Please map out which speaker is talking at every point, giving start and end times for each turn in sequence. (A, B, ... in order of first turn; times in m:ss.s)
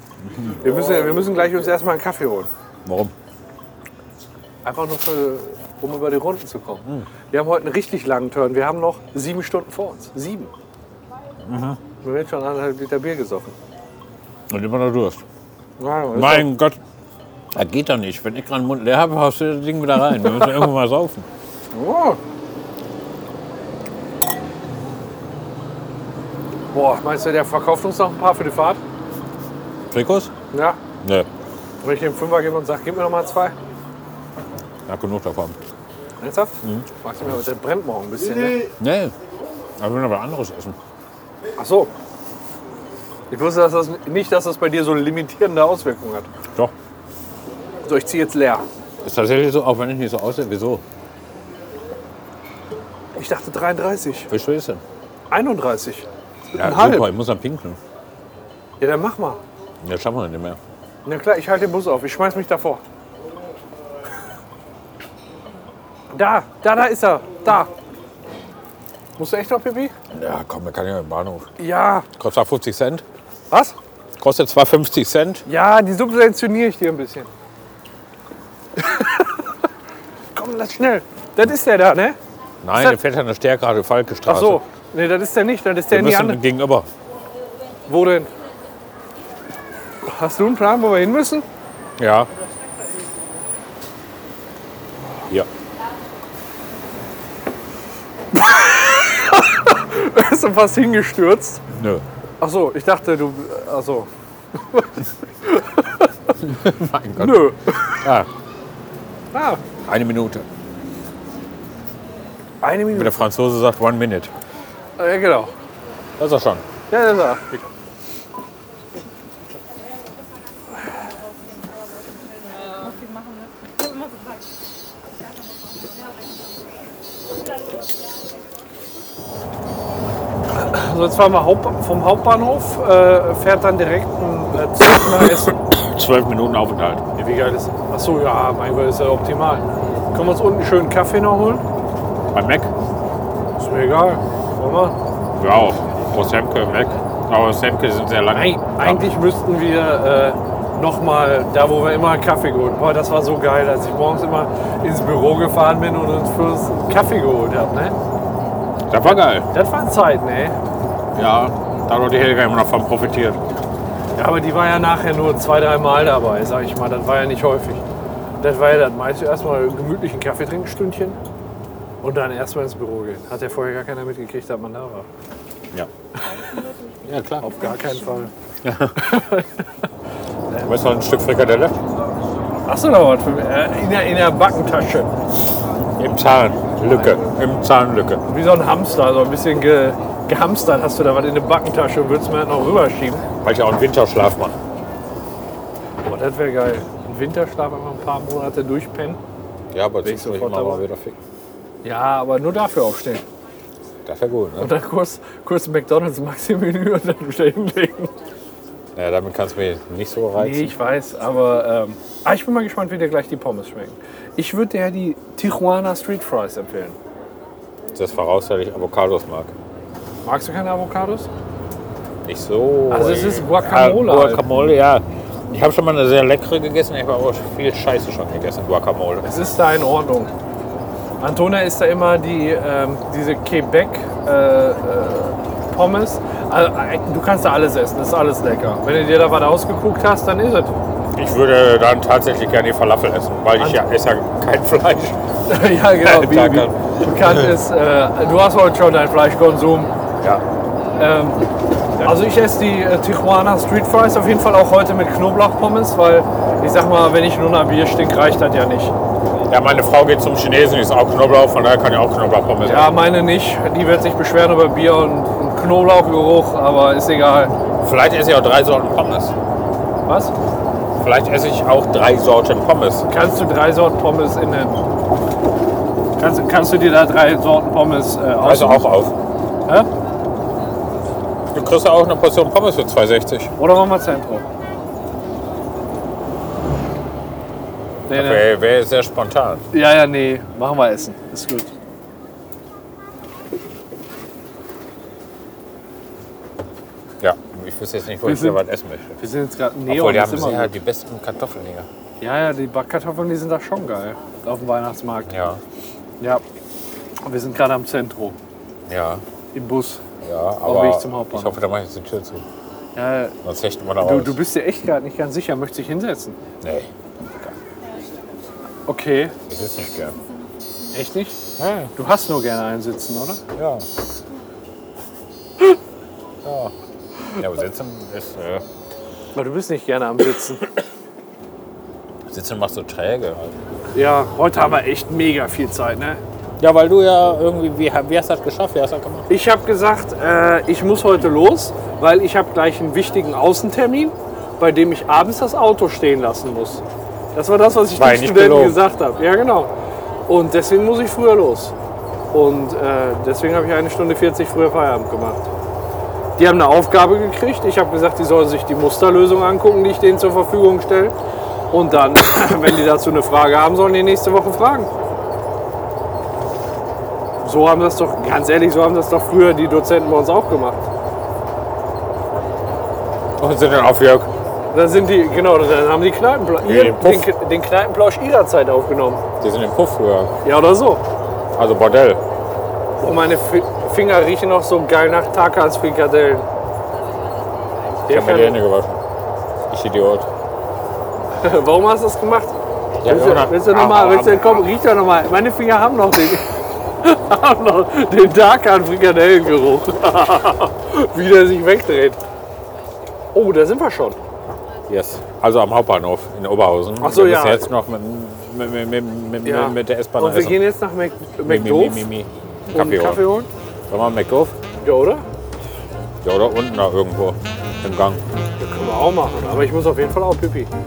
0:00.2-0:00.6 A
0:00.5-0:02.5 B
0:02.8-0:03.1 A
0:04.6-0:10.5 B
0:11.4-0:11.8 A
0:12.0-0:13.6 B
0:14.5-0:15.2 A
0:15.8-0:16.5 B
0:16.1-0:16.8 A
0:17.5-0:21.3 A
0:21.7-0:22.2 B
0:26.7-0:28.8 B
0:29.9-0:30.3 A
0:30.5-0:30.8 B
0:31.0-0:31.3 A
0:31.8-0:33.6 B
0:34.9-0:35.6 A
0:36.2-0:38.7 B
0:36.6-0:36.9 A
0:38.8-0:39.1 A
0:39.8-0:40.8 A
0:41.6-0:41.9 B
0:43.3-0:46.3 B
0:47.8-0:48.6 B
0:49.0-0:50.8 A
0:53.2-0:54.3 B
0:54.3-0:54.8 A
0:55.3-0:57.1 B
0:56.6-0:57.8 A
0:58.8-0:59.4 B
0:59.8-1:00.6 A
1:01.0-1:02.8 B
1:06.1-1:07.7 B
1:09.2-1:09.9 B
1:10.1-1:11.5 A
1:11.6-1:12.1 B
1:12.2-1:13.0 A
1:13.5-1:13.8 B
1:14.2-1:15.4 A
1:15.5-1:17.3 B
1:18.8-1:19.4 B
1:20.4-1:22.2 B
1:22.6-1:24.6 A
1:24.3-1:26.4 B
1:25.9-1:26.9 A
1:27.9-1:28.3 B
1:30.0-1:31.5 B
1:32.0-1:32.3 A
1:38.3-1:41.6 B
1:41.7-1:42.0 A
1:42.4-1:44.1 B
1:44.7-1:46.4 B
1:46.4-1:48.3 A
1:47.2-1:48.0 B
1:49.3-1:49.6 B
1:49.9-1:50.4 A
1:52.6-1:53.3 B
1:52.9-1:54.3 A
1:55.0-1:55.5 B
1:56.2-1:56.6 A
1:56.9-1:57.6 B
2:10.5-2:15.6 B
2:15.3-2:17.0 A
2:17.2-2:21.6 B
2:22.3-2:22.7 A
2:23.6-2:25.0 B
2:25.4-2:29.1 A
2:28.3-2:38.0 B
2:38.9-2:39.5 A
2:39.0-2:40.6 B
2:41.1-2:43.4 A
2:44.2-2:47.8 B
2:48.4-2:51.2 B
2:52.0-2:55.1 B
2:56.2-2:56.7 B
2:57.0-2:57.5 A
2:57.4-2:58.3 B
2:58.6-2:59.2 A
2:59.0-2:59.6 B
3:00.6-3:01.8 A
3:02.7-3:05.1 B
3:06.0-3:08.2 A
3:08.2-3:13.3 B
3:13.4-3:14.6 A
3:16.0-3:19.2 B
3:19.7-3:21.2 A
3:20.0-3:20.9 B
3:21.8-3:23.2 B
3:24.1-3:24.7 A
3:24.6-3:28.1 B
3:29.0-3:30.8 A
3:30.4-3:37.0 B
3:38.0-3:39.5 A
3:40.2-3:41.3 B
3:42.2-3:49.3 A
3:42.9-3:44.4 B
3:49.2-3:50.3 B
3:51.2-4:00.7 B
4:01.1-4:07.6 A
4:03.6-4:03.8 B
4:05.5-4:09.9 B
4:11.0-4:11.4 B
4:12.0-4:18.9 B
4:19.4-4:23.0 A
4:22.6-4:27.5 B
4:27.8-4:29.3 A
4:30.1-4:30.3 B
4:31.0-4:33.1 A
4:33.0-4:34.8 B
4:36.2-4:38.8 B
4:38.4-4:39.2 A
4:41.5-4:43.5 A
4:43.6-4:44.5 B
4:48.1-4:48.5 B
4:48.1-4:49.6 A
4:49.7-4:51.7 B
4:57.2-4:59.2 A
4:58.2-4:58.6 B
4:59.2-5:00.8 B
4:59.9-5:01.9 A
5:02.2-5:05.3 B
5:05.3-5:05.6 A
5:07.3-5:08.4 B
5:08.9-5:09.2 A
5:09.5-5:10.0 B
5:10.2-5:12.4 A
5:10.6-5:11.6 B
5:13.0-5:13.4 B
5:13.4-5:14.4 A
5:14.0-5:16.4 B
5:16.6-5:17.5 A
5:18.9-5:19.4 B
5:19.5-5:20.2 A
5:20.9-5:21.4 B
5:21.6-5:21.9 A
5:22.0-5:23.4 B
5:23.6-5:23.9 A
5:26.4-5:26.7 A
5:27.3-5:28.6 A
5:29.3-5:30.8 B
5:32.3-5:33.5 A
5:33.9-5:36.2 B
5:36.6-5:39.3 A
5:39.3-5:46.8 B
5:47.3-5:49.7 B
5:47.9-5:48.8 A
5:50.3-5:51.7 B
5:52.3-5:55.5 B
5:56.4-6:01.2 B
6:01.7-6:04.9 B
6:07.4-6:10.8 B
6:13.4-6:14.3 A
6:14.7-6:19.2 B
6:16.6-6:17.3 A
6:19.4-6:20.3 A
6:20.4-6:21.0 B
6:21.6-6:22.2 A
6:23.0-6:26.5 B
6:28.1-6:28.6 B
6:28.1-6:29.0 A
6:29.7-6:30.3 A
6:31.4-6:42.2 B
6:33.0-6:34.7 A
6:43.3-6:44.2 B
6:44.9-6:50.7 A
6:47.0-6:47.7 B
6:49.4-6:52.1 B
6:51.4-6:53.2 A
6:52.7-6:53.5 B
6:53.9-6:54.6 A
6:54.8-6:55.2 B
6:56.2-6:58.2 A
6:58.6-7:00.7 B